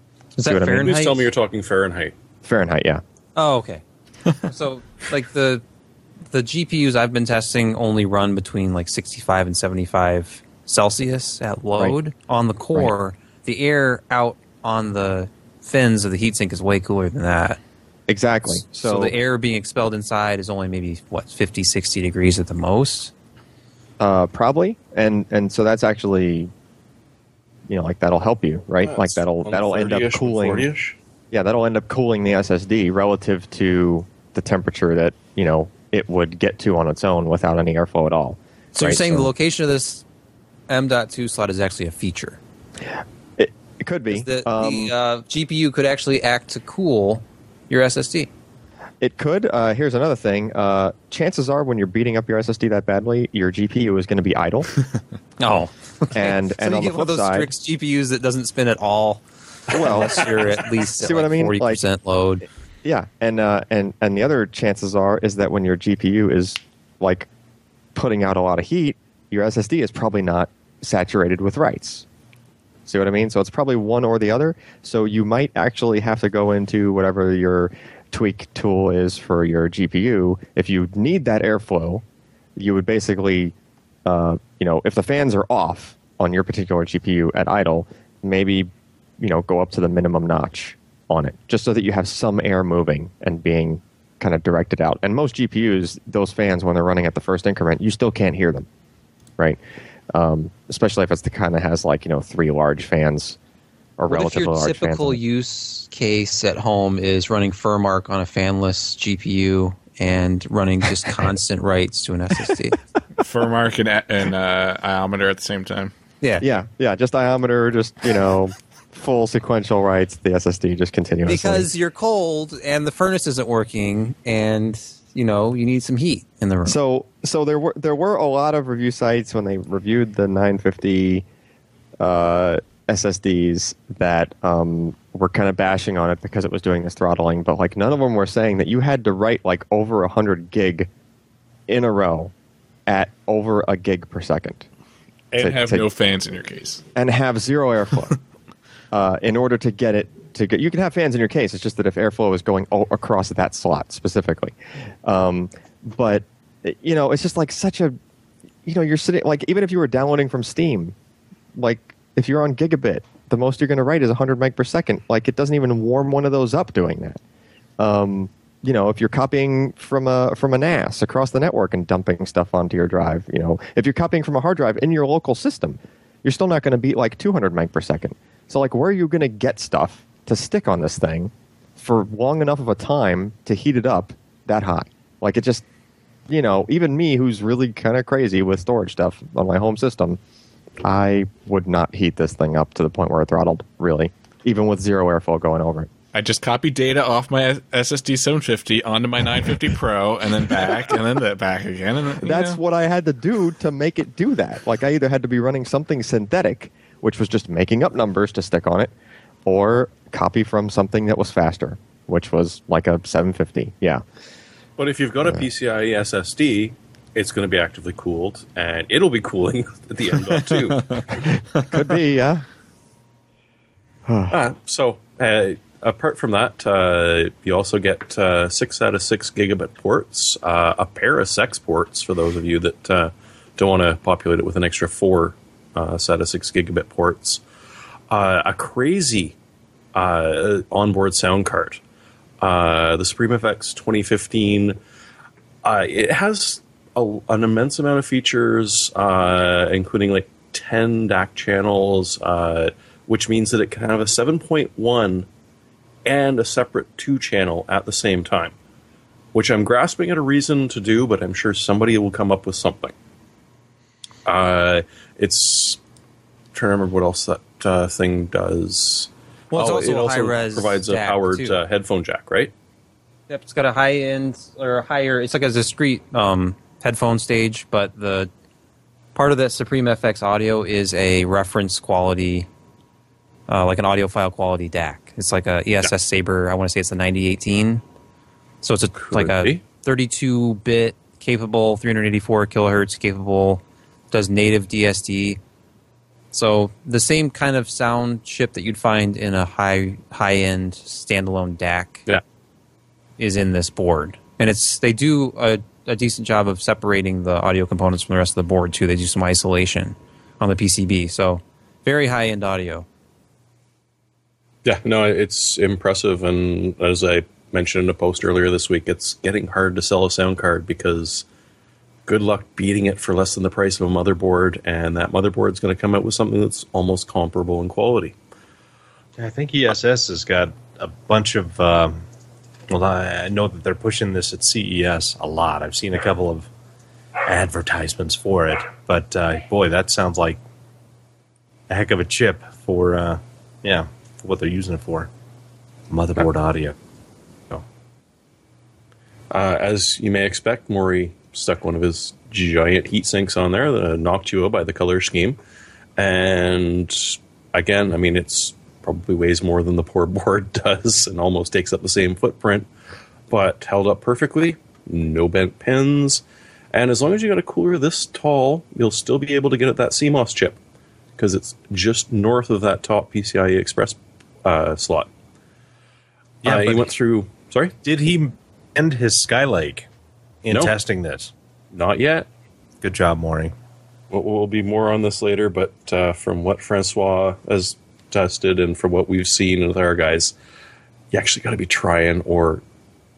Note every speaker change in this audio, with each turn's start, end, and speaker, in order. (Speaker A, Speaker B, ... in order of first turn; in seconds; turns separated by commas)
Speaker A: 0.3-1.3, Speaker B: 0.5-0.9, Speaker C: 0.8-2.1, Speaker B: 2.4-3.0, Speaker A: 3.4-5.6, Speaker A: 6.3-17.6, Speaker B: 18.1-19.1, Speaker A: 18.5-23.1, Speaker B: 24.0-26.5, Speaker B: 27.7-30.7, Speaker C: 28.8-31.0, Speaker B: 31.3-39.3, Speaker A: 38.7-40.0, Speaker A: 40.7-42.4, Speaker B: 42.8-44.9, Speaker A: 44.1-48.3, Speaker B: 49.0-54.7, Speaker A: 55.4-62.5, Speaker B: 56.1-57.5, Speaker B: 59.7-60.4, Speaker B: 61.0-61.8, Speaker B: 62.8-67.3, Speaker B: 67.9-72.0, Speaker B: 72.9-82.0, Speaker B: 82.5-83.5, Speaker B: 84.0-98.7, Speaker B: 100.1-103.4, Speaker B: 104.0-105.2, Speaker A: 104.1-112.8, Speaker D: 113.2-115.9, Speaker B: 116.4-121.7, Speaker A: 121.2-126.8, Speaker B: 126.6-131.2, Speaker B: 132.0-140.9, Speaker B: 141.7-142.3, Speaker B: 142.9-144.7, Speaker D: 145.3-146.8, Speaker B: 145.4-145.8, Speaker B: 146.9-148.2, Speaker B: 148.9-158.0, Speaker B: 158.6-160.9, Speaker B: 161.5-167.2, Speaker B: 167.8-185.6, Speaker B: 186.3-190.2, Speaker B: 190.8-195.9, Speaker D: 196.1-202.6, Speaker B: 202.2-208.9, Speaker B: 209.4-214.0, Speaker C: 214.8-221.2, Speaker B: 221.2-222.4, Speaker B: 224.1-224.4, Speaker C: 224.3-237.4, Speaker C: 238.1-239.3, Speaker C: 239.9-241.8, Speaker C: 242.4-244.8, Speaker C: 245.6-255.3, Speaker C: 256.0-258.5, Speaker C: 259.3-262.9, Speaker C: 264.2-265.8, Speaker C: 266.5-272.5, Speaker A: 269.5-271.6, Speaker A: 273.3-278.3, Speaker A: 279.1-282.5, Speaker A: 283.5-287.8, Speaker A: 288.6-295.4, Speaker C: 288.9-289.6, Speaker A: 296.3-302.0, Speaker A: 303.2-312.9, Speaker C: 314.6-321.2, Speaker C: 322.1-328.1, Speaker E: 329.2-332.0, Speaker E: 332.7-336.5, Speaker E: 337.3-340.4, Speaker E: 341.7-345.1, Speaker E: 345.9-346.8, Speaker C: 349.3-355.4, Speaker C: 356.0-362.7, Speaker C: 363.3-370.6, Speaker C: 371.2-375.1, Speaker E: 376.4-376.9, Speaker C: 376.4-377.7, Speaker E: 377.8-379.9, Speaker E: 380.4-381.3, Speaker C: 381.7-382.3, Speaker E: 382.8-383.5, Speaker C: 384.1-390.4, Speaker C: 391.1-392.6